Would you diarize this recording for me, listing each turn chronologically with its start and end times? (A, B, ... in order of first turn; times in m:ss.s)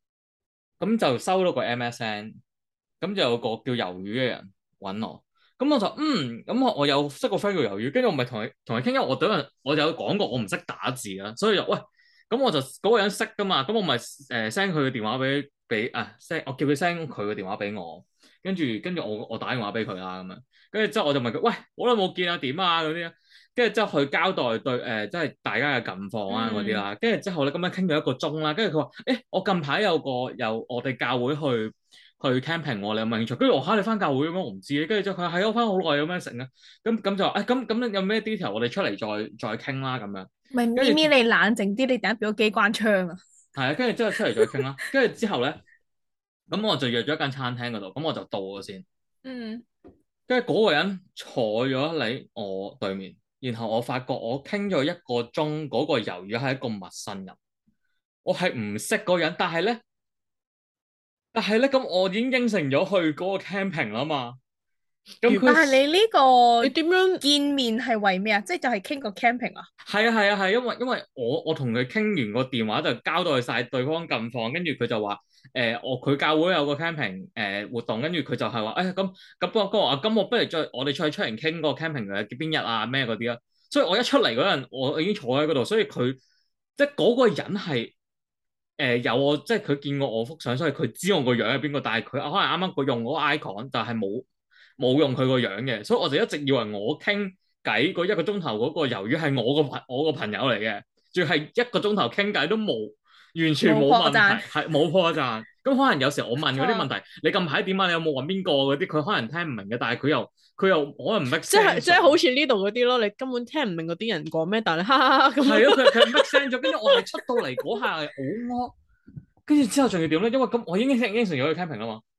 0:00.8-0:02.4 A
0:03.0-0:41.1 A
0:26.3-0:26.8 B
0:40.5-0:43.2 B
0:43.6-0:45.6 A
0:44.4-0:44.6 B
0:46.5-0:48.8 A
0:49.2-0:49.6 B
0:50.3-0:57.4 A
0:58.2-0:59.8 A
1:01.3-1:04.4 A
1:05.2-1:05.8 A
1:05.2-1:05.6 C
1:05.4-1:09.7 B
1:06.6-1:07.2 C
1:09.8-1:26.2 A
1:26.8-1:27.9 A
1:28.8-1:34.2 A
1:34.8-1:52.2 A
1:43.6-1:44.4 B
1:46.5-1:46.8 B
1:51.4-1:57.0 C
1:55.4-1:58.7 A
1:59.4-2:02.0 A